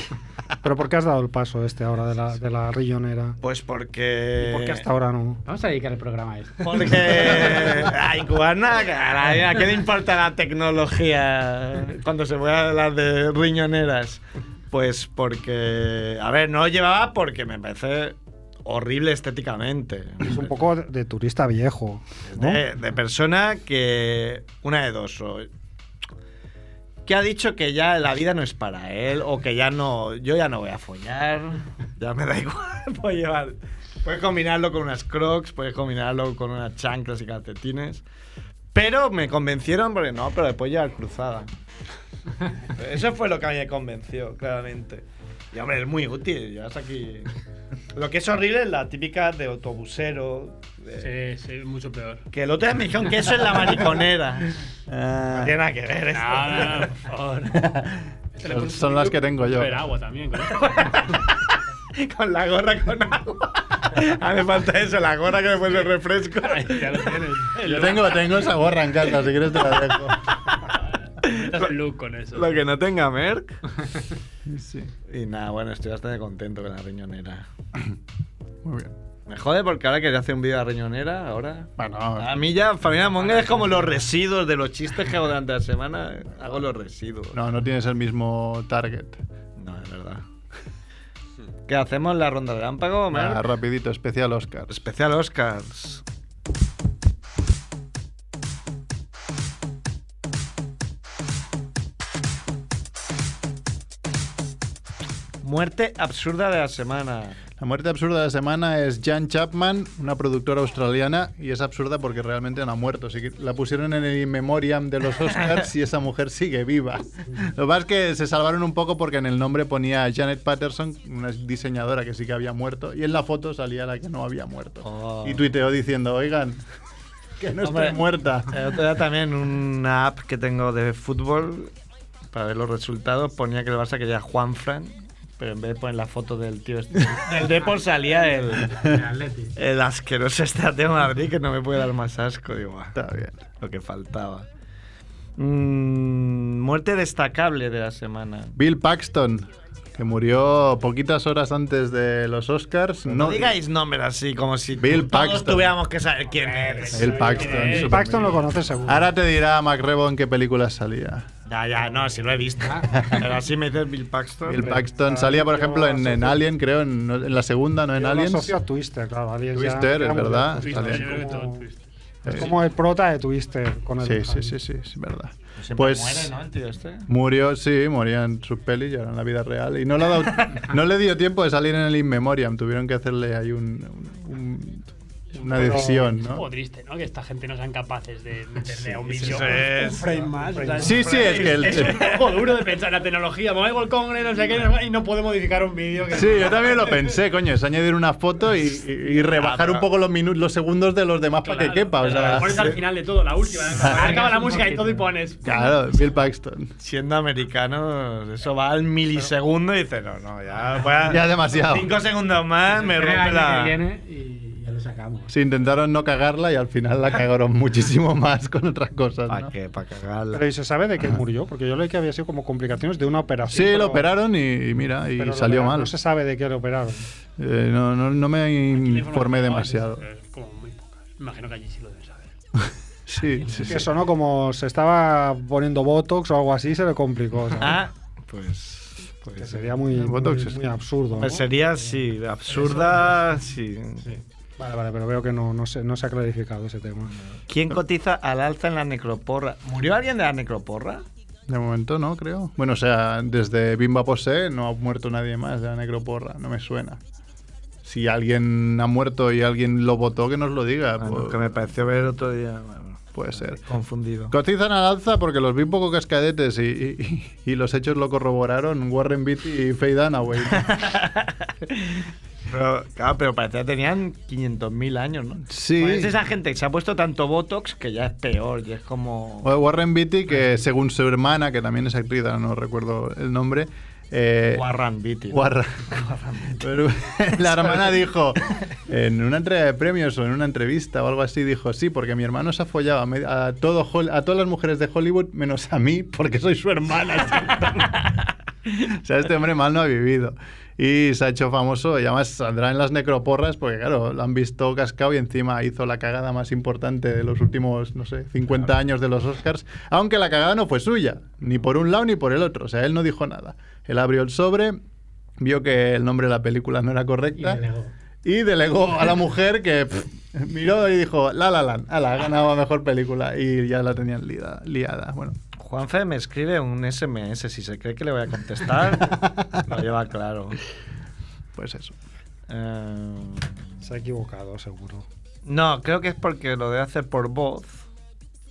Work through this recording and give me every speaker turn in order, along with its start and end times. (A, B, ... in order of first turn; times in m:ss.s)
0:00.6-0:03.4 A
0:03.4-0:04.8 B
0:04.4-0:05.4 A
0:05.4-0:07.7 C
0:06.6-0:20.6 B
0:20.2-0:22.6 A
0:22.2-0:25.5 B
0:27.0-0:38.0 B
0:38.7-0:41.5 B
0:42.7-0:47.3 B
0:47.9-0:51.1 B
0:51.0-0:52.2 D
0:52.3-0:54.6 B
0:54.9-0:55.5 E
0:55.3-0:56.9 B
0:56.1-0:57.8 D
0:57.5-0:57.9 E
0:58.4-1:01.2 D
0:58.4-0:59.8 E
1:00.5-1:01.3 B
1:01.9-1:07.1 B
1:06.4-1:08.3 D
1:07.6-1:10.4 E
1:11.2-1:12.6 D
1:11.2-1:11.7 B
1:12.3-1:13.6 B
1:14.5-1:14.9 E
1:15.1-1:17.4 B
1:18.6-1:18.9 E
1:19.3-1:27.4 B
1:21.8-1:22.4 E
1:27.3-1:29.2 E
1:29.6-1:30.2 B
1:31.7-1:33.4 B
1:33.1-1:34.7 E
1:34.7-1:36.0 B
1:45.4-1:47.4 B
1:47.6-2:06.6 E
2:04.8-2:05.4 B
2:07.4-2:08.6 E
2:07.6-2:11.7 B
2:12.3-2:18.8 B
2:18.7-2:19.5 C
2:19.6-2:23.0 B
2:22.9-2:23.4 E
2:23.6-2:24.4 B
2:25.4-2:28.5 B
2:28.6-2:33.5 E
2:33.1-2:37.8 B
2:34.8-2:35.7 E
2:36.4-2:38.1 D
2:36.9-2:41.3 E
2:37.7-2:39.1 A
2:41.4-2:44.8 B
2:42.9-2:43.2 E
2:44.4-2:48.5 E
2:44.6-2:46.4 A
2:48.0-2:51.6 A
2:49.5-2:51.4 E
2:50.6-2:51.8 D
2:52.2-2:52.5 E
2:52.2-2:54.5 A
2:54.0-2:56.3 E
2:55.6-2:57.1 B
2:57.1-3:06.4 E
3:05.3-3:17.1 D
3:05.6-3:05.9 A
3:08.8-3:09.5 E
3:09.1-3:12.2 B
3:10.5-3:10.9 A
3:10.8-3:12.0 E
3:16.1-3:22.8 E
3:19.2-3:19.9 B
3:21.4-3:25.5 D
3:23.7-3:24.1 E
3:23.7-3:25.6 C
3:25.4-3:26.7 E
3:26.8-3:33.8 B
3:31.0-3:31.9 E
3:32.7-3:35.3 C
3:35.3-3:39.5 E
3:39.3-3:40.4 B
3:40.3-3:44.0 A
3:43.5-3:45.9 E
3:45.2-3:47.0 A
3:47.4-3:50.0 E
3:48.7-3:52.3 D
3:53.1-3:53.9 E
3:53.4-3:53.7 D
3:53.7-3:57.8 A
3:57.6-3:59.7 B
3:59.4-4:01.5 A
3:59.9-4:00.6 E
4:01.2-4:04.0 B
4:04.6-4:07.1 A
4:07.5-4:11.0 B
4:11.5-4:17.0 E
4:17.8-4:21.5 E
4:21.0-4:24.3 B
4:23.1-4:23.6 E
4:24.3-4:30.8 E
4:30.5-4:39.5 B
4:35.5-4:36.2 E
4:39.4-4:44.6 E
4:44.5-4:46.8 B
4:45.3-4:45.8 E
4:46.6-4:58.0 E
4:47.6-4:47.8 B
4:58.7-5:14.8 E
5:15.4-5:17.6 E
5:17.4-5:17.9 C
5:18.2-5:25.4 E
5:25.5-5:30.6 B
5:29.0-5:29.4 E
5:31.5-5:32.0 E
5:32.5-5:33.6 B
5:33.8-5:35.0 A
5:35.4-5:37.8 B